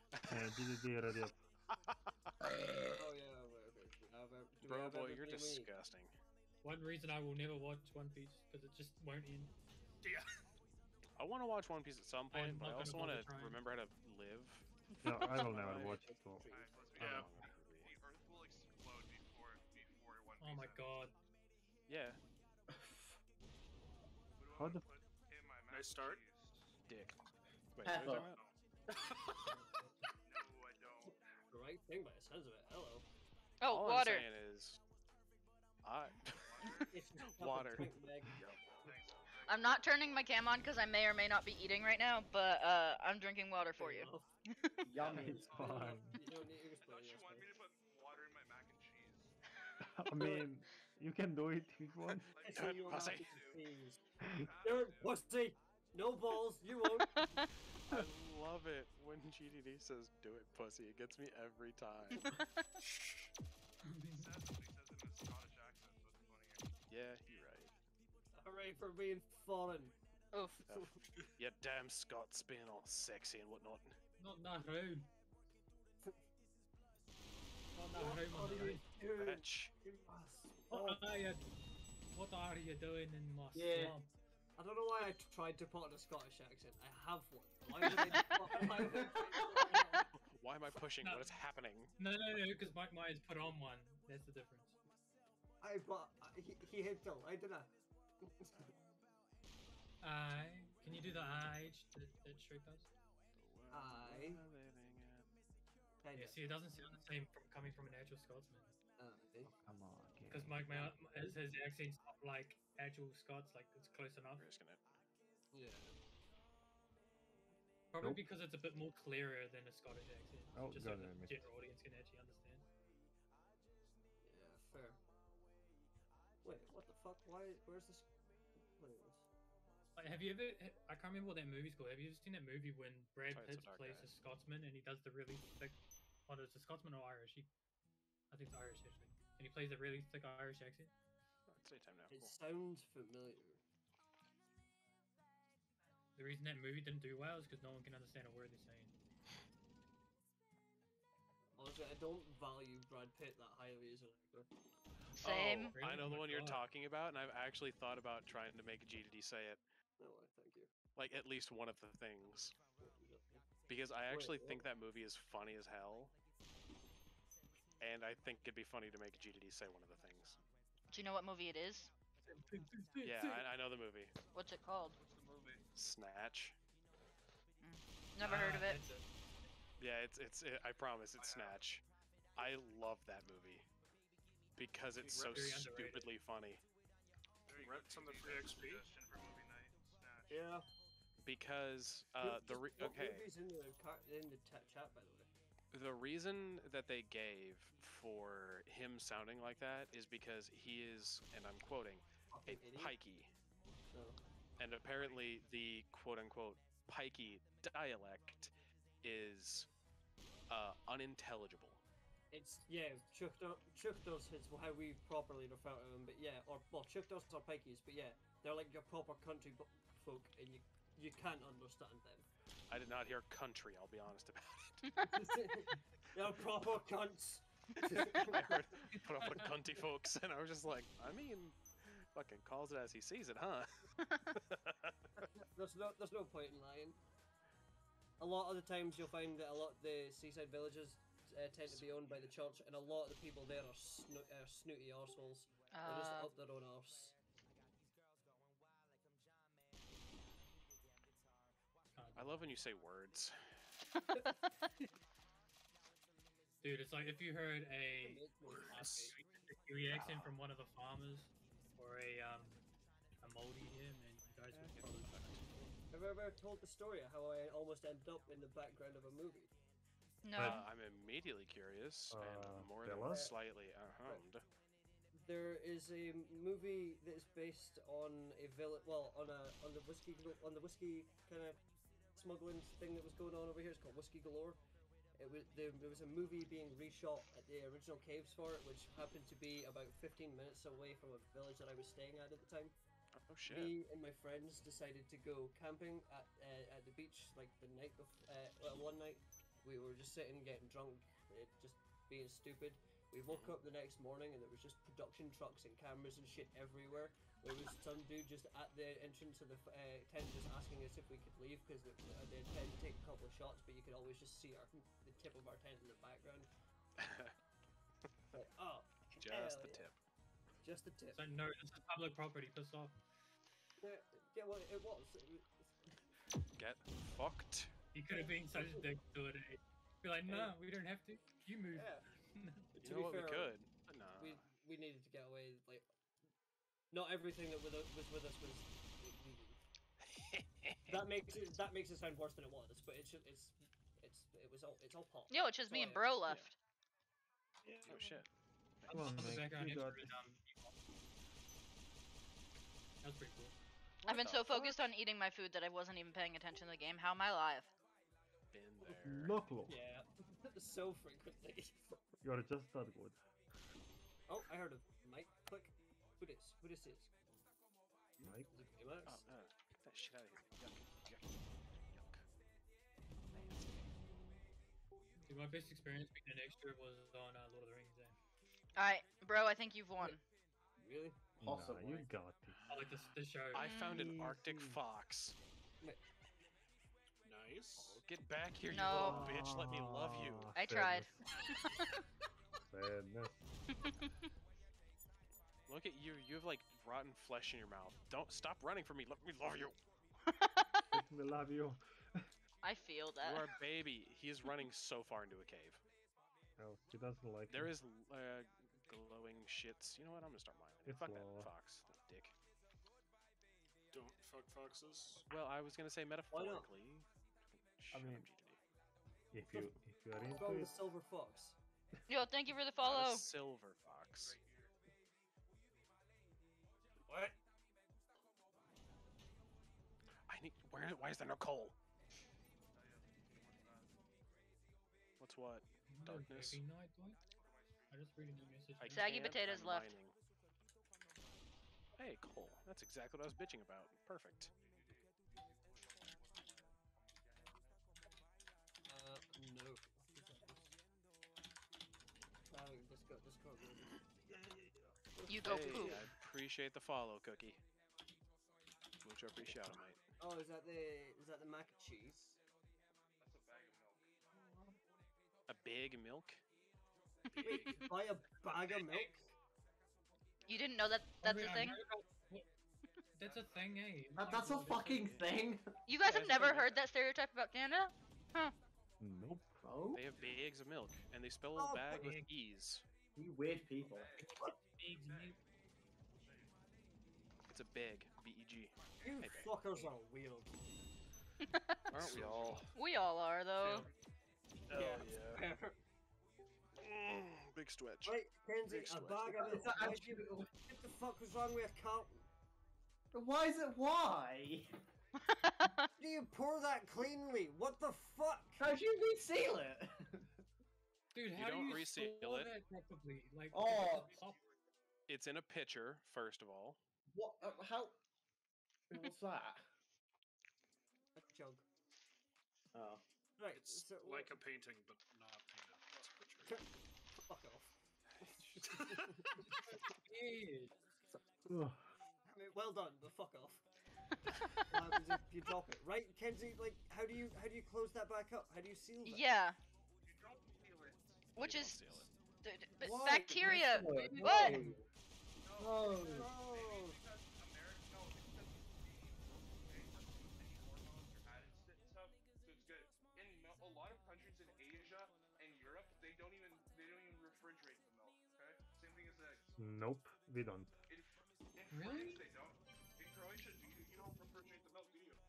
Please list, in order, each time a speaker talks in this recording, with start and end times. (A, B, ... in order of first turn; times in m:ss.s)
0:00.1-0:00.7 A
0:00.3-0:01.4 B
0:02.8-0:05.7 C
0:04.6-0:06.1 A
0:06.6-0:09.5 D
0:10.0-0:10.3 E
0:11.2-0:14.7 A
0:12.3-0:13.6 D
0:15.0-0:16.5 B
0:15.3-0:17.2 C
0:15.3-0:16.0 A
0:16.4-0:20.9 F
0:17.0-0:17.9 A
0:17.0-0:17.3 E
0:20.4-0:21.2 D
0:21.9-0:22.2 A
0:22.7-0:23.2 G
0:24.4-0:26.7 F
0:24.6-0:24.8 B
0:25.7-0:26.2 E
0:26.9-0:27.1 A
0:27.8-0:28.4 A
0:27.8-0:28.4 G
0:28.3-0:28.6 E
0:29.5-0:30.0 D
0:30.2-0:31.2 F
0:31.5-0:33.0 C
0:33.6-0:34.3 H
0:33.7-0:34.8 A
0:35.8-0:37.9 A
0:36.3-0:37.0 F
0:36.9-0:38.4 C
0:38.7-0:39.9 F
0:39.5-0:44.8 H
0:43.8-0:44.3 C
0:44.8-0:45.8 G
0:45.0-0:47.6 C
0:45.0-0:46.1 F
0:45.1-0:46.2 B
0:46.8-0:49.4 F
0:49.8-0:52.3 B
0:50.2-0:50.5 C
0:52.3-0:53.7 F
0:52.4-0:54.0 C
0:52.5-0:53.4 A
0:54.2-0:54.5 B
0:54.4-0:55.2 F
0:54.6-0:57.1 C
0:57.2-0:57.5 H
0:57.9-1:02.3 A
1:02.8-1:03.3 E
1:03.8-1:04.4 D
1:04.1-1:06.7 F
1:06.9-1:07.7 A
1:08.3-1:10.0 C
1:10.3-1:10.6 H
1:10.7-1:14.0 A
1:10.7-1:11.0 C
1:14.2-1:15.1 D
1:17.8-1:18.8 D
1:18.0-1:21.1 C
1:19.2-1:19.7 A
1:20.7-1:21.5 D
1:22.1-1:24.1 D
1:23.5-1:24.0 G
1:24.6-1:30.0 C
1:28.8-1:29.1 G
1:30.2-1:31.9 A
1:31.0-1:31.4 D
1:32.0-1:34.8 D
1:35.6-1:38.5 C
1:40.0-1:42.9 D
1:43.4-1:45.3 A
1:43.7-1:44.4 C
1:46.0-1:47.0 C
1:46.1-1:48.8 D
1:49.0-1:49.6 C
1:49.6-1:50.8 B
1:50.3-1:54.5 D
1:54.4-1:55.0 A
1:55.5-1:56.0 C
1:57.9-2:02.7 D
1:58.0-1:58.2 B
2:00.5-2:01.5 B
2:04.2-2:05.0 C
2:06.4-2:09.2 C
2:10.0-2:17.5 D
2:13.3-2:14.1 A
2:18.3-2:20.9 D
2:21.5-2:22.4 A
2:22.1-2:23.6 C
2:26.2-2:28.9 D
2:31.6-2:34.5 C
2:35.2-2:35.8 H
2:35.2-2:39.6 A
2:35.7-2:36.7 D
2:40.0-2:40.7 C
2:41.0-2:42.6 A
2:42.8-2:43.5 C
2:43.7-2:46.1 A
2:44.1-2:44.6 C
2:47.8-2:50.4 A
2:50.9-2:51.9 H
2:52.3-2:53.4 D
2:53.0-2:54.1 A
2:54.3-2:55.0 H
2:55.0-2:55.6 F
2:55.8-2:56.6 A
2:57.6-2:58.8 H
2:58.2-2:59.1 D
2:59.8-3:01.8 A
3:01.2-3:01.6 F
3:02.4-3:03.7 A
3:04.6-3:06.6 A
3:05.0-3:06.1 D
3:07.5-3:08.9 E
3:07.5-3:10.4 F
3:10.3-3:10.6 C
3:11.2-3:13.2 A
3:12.2-3:15.3 C
3:15.7-3:23.3 A
3:22.3-3:23.0 C
3:23.9-3:24.2 C
3:24.6-3:28.5 A
3:29.0-3:29.7 A
3:30.5-3:31.8 A
3:32.3-3:42.3 C
3:42.7-3:44.9 A
3:45.0-3:48.6 C
3:48.1-3:55.0 A
3:49.2-3:49.6 D
3:55.3-3:57.0 C
3:58.2-4:07.2 C
4:01.7-4:02.2 A
4:05.7-4:06.3 H
4:11.9-4:12.6 D
4:12.2-4:13.5 A
4:16.6-4:22.6 D
4:18.0-4:19.2 C
4:19.9-4:20.4 A
4:23.2-4:25.7 D
4:24.7-4:25.4 A
4:25.9-4:29.5 C
4:30.2-4:30.7 H
4:30.4-4:30.6 B
4:30.4-4:34.4 A
4:32.1-4:33.4 B
4:35.1-4:41.6 C
4:42.2-4:44.6 C
4:45.2-4:52.8 C
4:53.2-4:53.8 A
4:53.5-5:16.5 C
5:03.3-5:03.6 A
5:17.0-5:17.4 A
5:18.3-5:19.8 C
5:19.2-5:20.0 A
5:20.6-5:21.2 C
5:21.2-5:23.0 D
5:23.8-5:26.0 C
5:26.6-5:27.7 A
5:27.9-5:32.7 D
5:28.5-5:28.9 C
5:30.3-5:30.6 C
5:31.7-5:32.1 C
5:32.7-5:33.5 C
5:32.8-5:34.5 A
5:34.2-5:35.9 C
5:36.9-5:39.6 C
5:40.1-5:40.9 A
5:40.9-5:46.0 C
5:45.3-5:46.6 H
5:47.9-5:48.3 A
5:48.9-5:50.8 D
5:48.9-5:50.2 B
5:53.0-5:53.6 D
5:54.0-5:57.7 H
5:54.1-5:54.7 A
5:58.5-5:59.4 A
5:58.8-5:59.8 B
5:59.7-6:02.0 C
6:02.2-6:03.2 B
6:04.3-6:07.1 C
6:08.2-6:08.6 B
6:08.5-6:09.2 C
6:09.0-6:12.2 A
6:13.3-6:14.2 A
6:15.2-6:18.2 D
6:18.8-6:20.2 H
6:20.8-6:21.2 C
6:21.4-6:22.7 B
6:21.4-6:22.1 G
6:22.7-6:23.8 D
6:23.5-6:25.4 A
6:23.7-6:24.1 H
6:23.9-6:24.8 B
6:27.2-6:28.0 E
6:27.8-6:30.5 A
6:28.7-6:29.3 H
6:28.8-6:31.2 B
6:30.6-6:31.1 H
6:32.7-6:33.5 B
6:35.7-6:39.8 A
6:40.3-6:40.8 H
6:40.9-6:42.3 B
6:42.6-6:43.5 H
6:43.2-6:45.8 A
6:46.6-6:47.8 B
6:47.5-6:52.3 A
6:50.8-6:51.5 B
6:53.9-6:55.2 E
6:55.3-6:58.6 A
6:56.3-6:56.7 C
6:57.9-6:58.3 B
6:59.3-7:00.8 B
6:59.5-7:01.6 C
7:02.1-7:03.3 H
7:02.8-7:04.4 A
7:04.0-7:04.7 F
7:10.3-7:11.8 A
7:12.7-7:14.0 F
7:15.2-7:16.6 A
7:15.9-7:17.2 D
7:17.3-7:18.1 F
7:17.9-7:19.2 D
7:18.8-7:20.2 A
7:18.9-7:20.0 H
7:22.0-7:24.5 A
7:24.6-7:27.8 F
7:28.9-7:30.7 C
7:32.5-7:33.9 C
7:35.1-7:36.1 C
7:35.3-7:36.0 H
7:35.4-7:37.6 A
7:39.0-7:40.0 A
7:40.2-7:42.4 C
7:43.2-7:44.4 F
7:45.5-7:46.4 A
7:47.4-7:47.8 E
7:47.4-7:49.3 C
7:48.9-7:49.3 F
7:50.5-7:51.8 H
7:51.2-7:52.5 D
7:53.2-7:55.2 D
7:53.2-7:54.0 F
7:54.2-7:55.7 G
7:55.9-7:58.6 H
7:56.1-7:56.7 C
7:59.0-7:59.6 B
7:59.6-8:00.0 G
7:59.9-8:02.8 A
8:01.6-8:02.2 C
8:01.9-8:02.2 D
8:03.2-8:04.2 G
8:03.8-8:05.4 F
8:04.2-8:05.4 D
8:06.2-8:06.5 F
8:07.5-8:09.8 A
8:08.8-8:09.3 F
8:09.0-8:10.6 C
8:11.5-8:12.0 H
8:11.9-8:12.7 A
8:12.7-8:13.9 H
8:13.6-8:13.9 E
8:14.7-8:15.4 A
8:14.7-8:15.8 C
8:14.8-8:15.1 E
8:16.8-8:19.5 A
8:18.0-8:22.3 C
8:19.3-8:20.5 G
8:23.1-8:24.8 G
8:25.3-8:25.9 H
8:26.0-8:28.6 C
8:28.6-8:30.3 G
8:31.1-8:34.4 D
8:31.4-8:32.6 A
8:33.5-8:34.1 G
8:33.8-8:34.5 F
8:35.1-8:36.8 A
8:37.1-8:38.0 G
8:38.9-8:39.6 G
8:41.2-8:41.6 C
8:42.7-8:43.0 G
8:43.4-8:44.4 C
8:43.5-8:46.6 E
8:47.3-8:47.8 C
8:48.2-8:48.7 A
8:48.6-8:49.3 C
8:51.5-8:52.0 B
8:52.3-8:53.6 C
8:54.7-8:59.2 C
8:59.0-8:59.6 H
9:00.0-9:01.3 F
9:01.4-9:04.6 H
9:01.4-9:02.1 A
9:02.8-9:04.9 G
9:04.3-9:04.7 C
9:05.4-9:19.6 F
9:05.6-9:06.3 G
9:06.0-9:07.0 C
9:19.6-9:20.8 B
9:20.9-9:25.2 F
9:21.7-9:22.2 D